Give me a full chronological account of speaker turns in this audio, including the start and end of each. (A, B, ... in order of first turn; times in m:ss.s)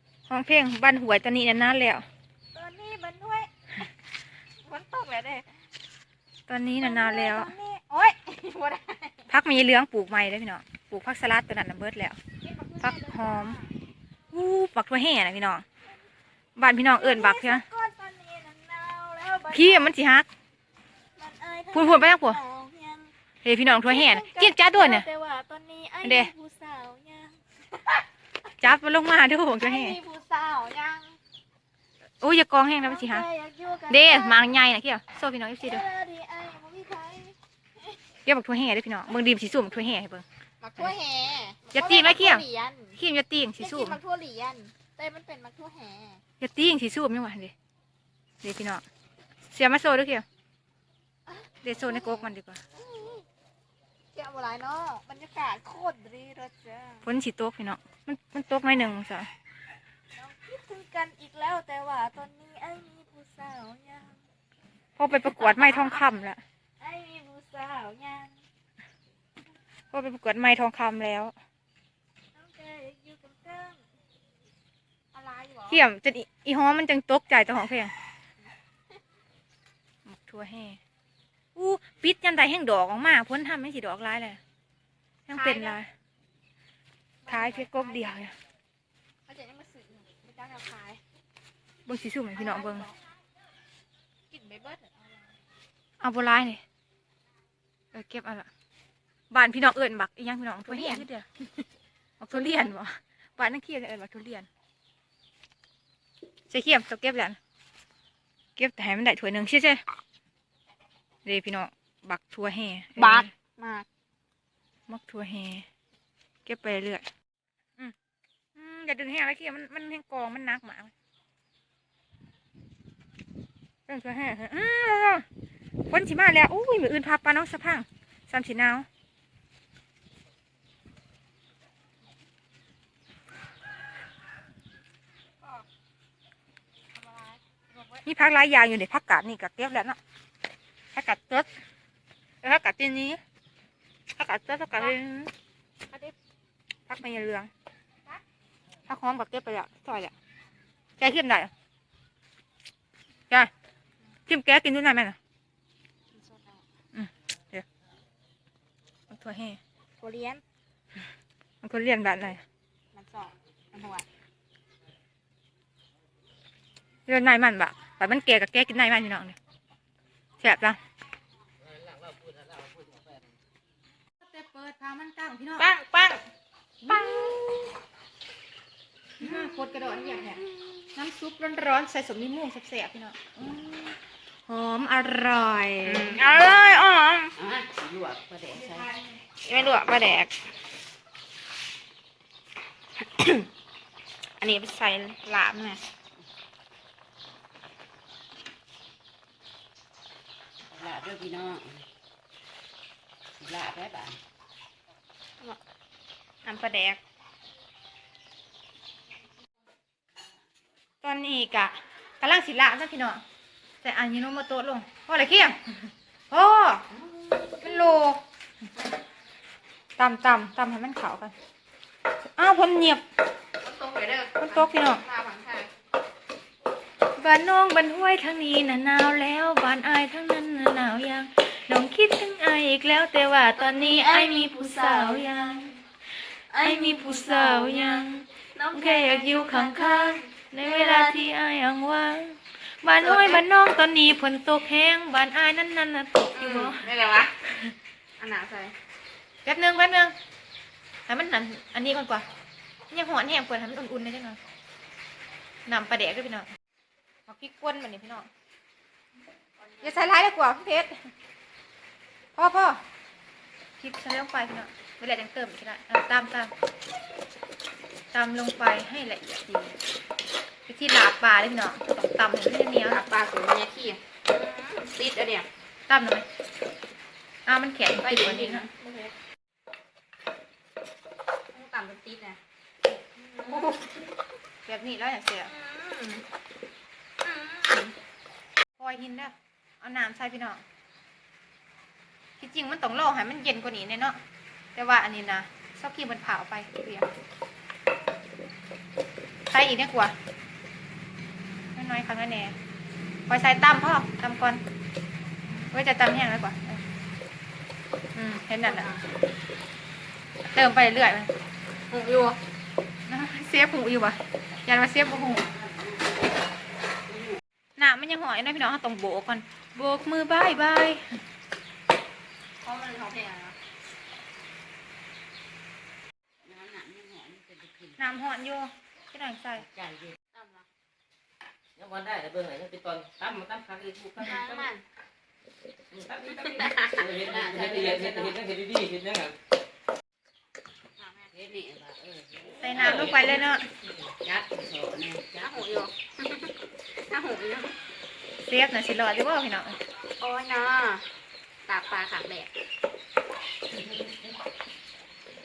0:00.3-0:02.0 A
0:02.5-0:03.5 B
0:04.6-0:05.6 B
0:06.5-0:07.5 A
0:06.8-0:09.3 B
0:09.3-0:12.2 A
0:12.4-0:13.7 B
0:12.8-0:13.6 A
0:14.3-0:15.6 A
0:16.6-0:17.6 A
0:17.0-0:19.9 B
0:19.5-0:20.3 A
0:21.2-0:23.1 B
0:21.7-0:22.4 A
0:23.4-0:25.0 A
0:23.7-0:28.0 B
0:26.0-0:26.3 A
0:28.6-0:30.0 A
0:29.6-0:31.2 B
0:32.2-0:33.2 A
0:32.8-0:34.5 B
0:33.9-0:35.8 A
0:35.6-0:38.0 B
0:38.2-0:40.2 A
0:40.6-0:43.0 B
0:41.7-0:42.4 A
0:43.0-0:44.0 A
0:43.6-0:46.2 B
0:46.4-0:47.5 A
0:48.4-0:48.8 A
0:49.5-0:50.2 A
0:51.3-0:53.2 B
0:51.6-0:52.6 A
0:54.1-0:57.0 B
0:57.0-0:59.3 A
1:00.1-1:04.2 B
1:05.0-1:06.4 A
1:05.2-1:06.0 B
1:06.8-1:08.4 B
1:09.9-1:11.3 A
1:12.3-1:13.8 B
1:15.1-1:15.8 B
1:15.7-1:17.9 A
1:20.0-1:20.8 A
1:21.6-1:24.4 A
1:25.3-1:25.9 A
1:25.3-1:25.8 B
1:27.2-1:28.2 B
1:27.3-1:28.3 A
1:29.2-1:31.0 B
1:31.8-1:32.9 A
1:32.3-1:32.9 B
1:34.3-1:35.3 B
1:36.0-1:36.6 A
1:37.9-1:38.5 A
1:39.3-1:41.2 A
1:40.7-1:41.1 B
1:42.2-1:44.5 A
1:46.5-1:47.4 A
1:48.6-1:49.8 A
1:51.2-1:53.3 A
1:53.0-1:53.9 B
1:54.9-1:55.6 A
1:56.4-1:57.0 A
1:58.6-2:00.9 A
2:03.9-2:05.2 A
2:05.9-2:08.8 A
2:16.9-2:18.0 B
2:18.0-2:20.0 A
2:20.9-2:21.5 A
2:22.4-2:23.2 A
2:24.2-2:25.3 A
2:25.9-2:26.1 B
2:26.9-2:27.5 A
2:28.8-2:30.1 A
2:31.0-2:31.5 A
2:34.3-2:35.2 A
2:36.1-2:36.6 B
2:36.9-2:37.6 A
2:39.1-2:39.6 A
2:40.0-2:40.4 B
2:41.6-2:42.4 A
2:42.9-2:44.1 B
2:47.1-2:49.4 A
2:50.4-2:50.8 A
2:52.0-2:53.0 C
2:54.2-2:55.6 A
2:55.6-2:56.2 B
2:56.8-2:57.6 A
2:56.9-2:57.7 B
2:59.2-3:00.4 A
2:59.2-3:00.8 B
3:00.9-3:04.0 A
3:04.5-3:06.8 A
3:05.8-3:07.3 B
3:07.4-3:08.9 C
3:08.7-3:09.1 A
3:09.4-3:10.4 B
3:13.0-3:13.5 B
3:14.4-3:15.8 B
3:20.7-3:21.9 C
3:23.4-3:24.2 C
3:26.4-3:27.0 B
3:31.0-3:33.2 A
3:33.8-3:36.8 A
3:36.9-3:37.9 C
3:37.6-3:38.2 A
3:40.0-3:41.3 A
3:42.4-3:43.0 A
3:43.6-3:45.7 B
3:44.4-3:45.0 A
3:47.2-3:55.8 A
3:53.5-3:55.5 B
3:56.5-4:01.2 B
3:56.6-4:06.9 A
4:03.0-4:03.4 B
4:06.3-4:07.4 B
4:07.4-4:07.7 A
4:08.2-4:08.7 B
4:09.4-4:10.1 A
4:11.1-4:12.2 A
4:12.9-4:14.4 A
4:15.6-4:16.5 A
4:17.3-4:18.3 A
4:19.6-4:20.1 B
4:19.8-4:21.1 A
4:22.4-4:22.8 A
4:23.8-4:26.5 A
4:28.1-4:29.8 A
4:30.7-4:33.0 A
4:32.9-4:35.5 B
4:35.9-4:36.2 A
4:37.4-4:38.7 A
4:37.9-4:39.1 B
4:41.5-4:44.0 B
4:43.5-4:43.8 A
4:44.6-4:45.5 A
4:45.4-4:46.2 B
4:47.2-4:47.9 B
4:48.8-4:50.6 A
4:52.4-4:54.2 A
4:54.8-4:57.1 A
4:59.5-5:00.1 A
5:01.7-5:02.5 A
5:03.3-5:04.6 A
5:05.7-5:06.8 A
5:08.1-5:08.9 A
5:08.6-5:09.0 B
5:10.5-5:11.3 A
5:11.9-5:12.4 B
5:13.1-5:15.5 A
5:15.2-5:16.3 C
5:17.0-5:17.4 C
5:17.8-5:21.2 A
5:22.6-5:23.6 B
5:26.4-5:28.1 C
5:28.0-5:29.7 A
5:29.6-5:30.2 C
5:30.3-5:30.6 B
5:31.8-5:34.6 D
5:34.2-5:34.8 B
5:35.9-5:39.3 D
5:36.3-5:37.2 B
5:37.0-5:38.5 C
5:41.0-5:41.3 B
5:41.3-5:43.4 C
5:42.6-5:43.7 A
5:44.1-5:45.9 C
5:45.4-5:47.8 B
5:48.4-5:49.8 A
5:50.2-5:51.0 B
5:51.6-5:52.5 B
5:53.7-5:54.3 C